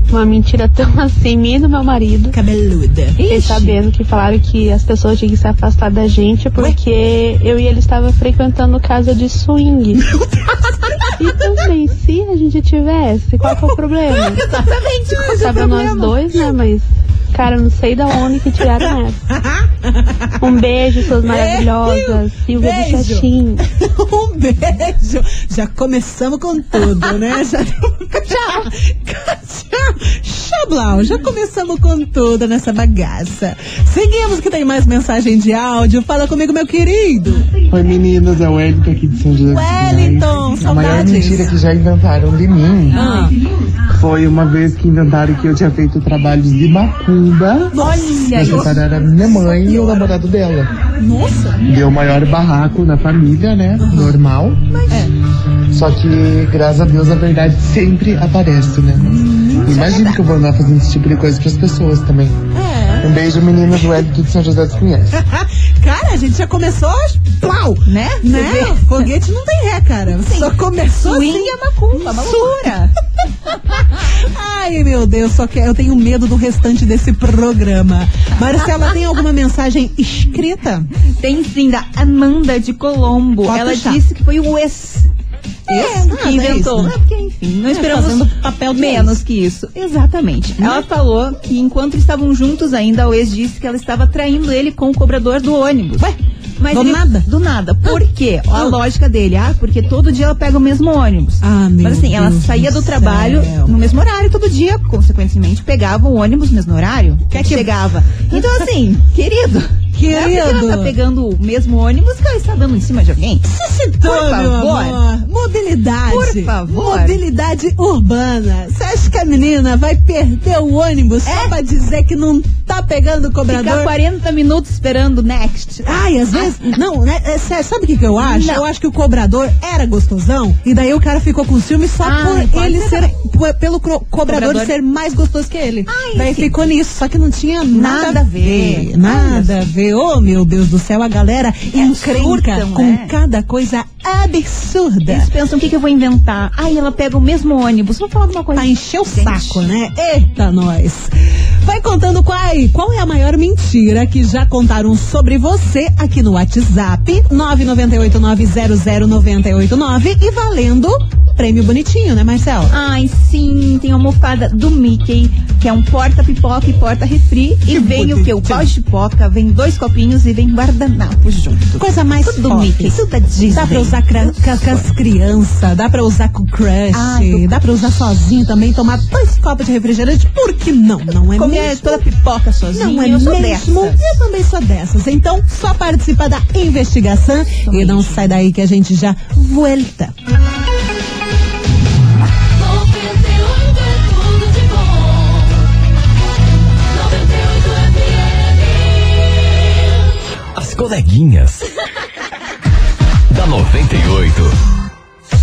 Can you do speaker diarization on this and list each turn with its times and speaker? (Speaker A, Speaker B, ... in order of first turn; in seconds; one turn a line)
Speaker A: 0.1-2.4
Speaker B: 2.3-3.2
Speaker C: 3.2-3.8
Speaker A: 3.2-10.1
Speaker B: 10.2-11.0
Speaker A: 11.1-14.4
Speaker B: 13.4-16.6
Speaker C: 14.4-15.2
Speaker A: 15.2-19.2
Speaker B: 18.6-37.5
Speaker A: 20.4-23.6
Speaker D: 37.7-43.1
Speaker B: 39.5-41.5
Speaker C: 42.9-43.4
Speaker B: 42.9-43.3
Speaker D: 44.0-47.7
Speaker B: 47.7-50.2
Speaker C: 47.8-48.8
Speaker D: 48.3-50.7
Speaker B: 50.9-51.7
Speaker D: 51.6-54.6
Speaker B: 53.8-54.2
Speaker C: 54.7-55.1
Speaker D: 55.7-62.4
Speaker B: 59.2-60.2
Speaker B: 62.5-63.1
Speaker D: 63.0-65.2
Speaker B: 65.1-72.8
Speaker C: 67.8-68.9
Speaker C: 70.1-72.9
Speaker B: 73.5-80.9
Speaker C: 81.2-85.1
Speaker B: 83.4-84.0
Speaker B: 85.7-87.0
Speaker C: 85.7-113.5
Speaker B: 87.7-89.2
Speaker B: 90.6-90.9
Speaker B: 96.7-97.3
Speaker B: 98.5-98.8
Speaker B: 101.4-103.7
Speaker B: 107.3-107.7
Speaker B: 108.3-108.6
Speaker B: 109.9-111.0
Speaker B: 113.4-123.9
Speaker C: 114.0-115.0
Speaker C: 116.1-117.2
Speaker C: 121.2-121.5
Speaker C: 123.5-126.8
Speaker B: 125.8-145.3
Speaker C: 128.2-128.6
Speaker C: 132.0-133.1
Speaker C: 134.2-134.7
Speaker C: 135.9-136.5
Speaker C: 137.7-139.6
Speaker C: 141.7-143.1
Speaker C: 145.1-149.6
Speaker B: 148.5-162.7
Speaker C: 162.7-174.9
Speaker B: 167.7-168.7
Speaker B: 171.8-182.0
Speaker C: 176.9-177.8
Speaker C: 181.3-184.2
Speaker B: 182.7-190.1
Speaker C: 187.6-188.4
Speaker E: 200.5-201.7
Speaker E: 203.3-204.5